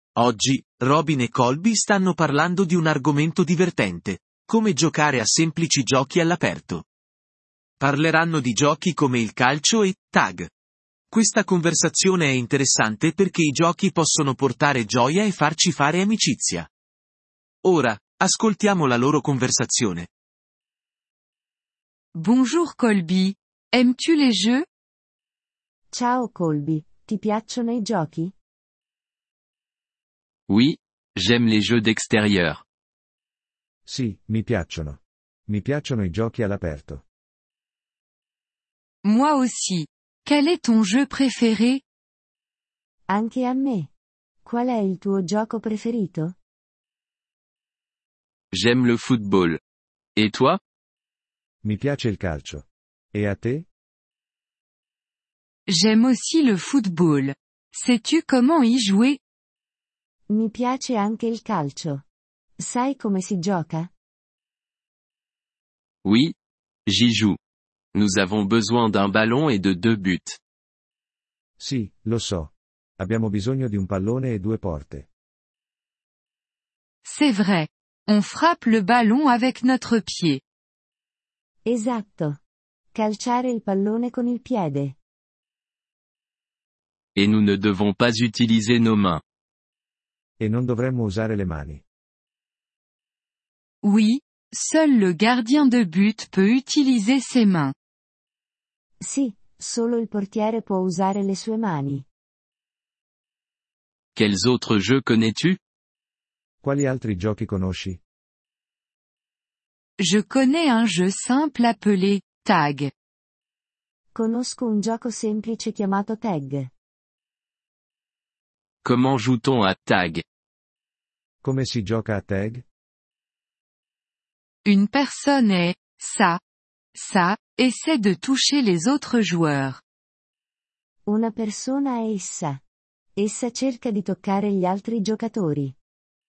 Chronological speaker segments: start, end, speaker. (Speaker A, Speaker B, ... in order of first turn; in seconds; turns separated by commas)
Speaker A: 0.1-6.8, Speaker A: 7.8-10.5, Speaker A: 11.1-16.7, Speaker A: 17.6-20.1, Speaker B: 22.1-24.6, Speaker C: 25.9-28.3, Speaker D: 30.5-32.6, Speaker E: 33.9-37.0, Speaker B: 39.0-41.8, Speaker C: 43.1-43.9, Speaker C: 44.4-46.3, Speaker D: 48.5-49.6, Speaker D: 50.1-50.6, Speaker E: 51.6-53.7, Speaker B: 55.7-59.2, Speaker C: 60.3-62.0, Speaker C: 62.6-63.9, Speaker D: 66.0-66.3, Speaker D: 66.9-67.4, Speaker D: 67.9-70.4, Speaker E: 71.6-75.1, Speaker B: 77.0-80.4, Speaker C: 81.7-82.4, Speaker C: 82.9-84.9, Speaker D: 87.2-89.2, Speaker E: 90.4-91.8, Speaker B: 93.8-97.7, Speaker C: 99.0-102.0, Speaker D: 104.1-105.6, Speaker E: 106.6-108.0, Speaker B: 110.0-112.9, Speaker C: 114.1-116.7, Speaker D: 118.8-120.2, Speaker E: 121.4-122.6, Speaker B: 124.6-126.4, Speaker B: 126.9-129.8, Speaker C: 131.1-132.6, Speaker C: 133.2-135.7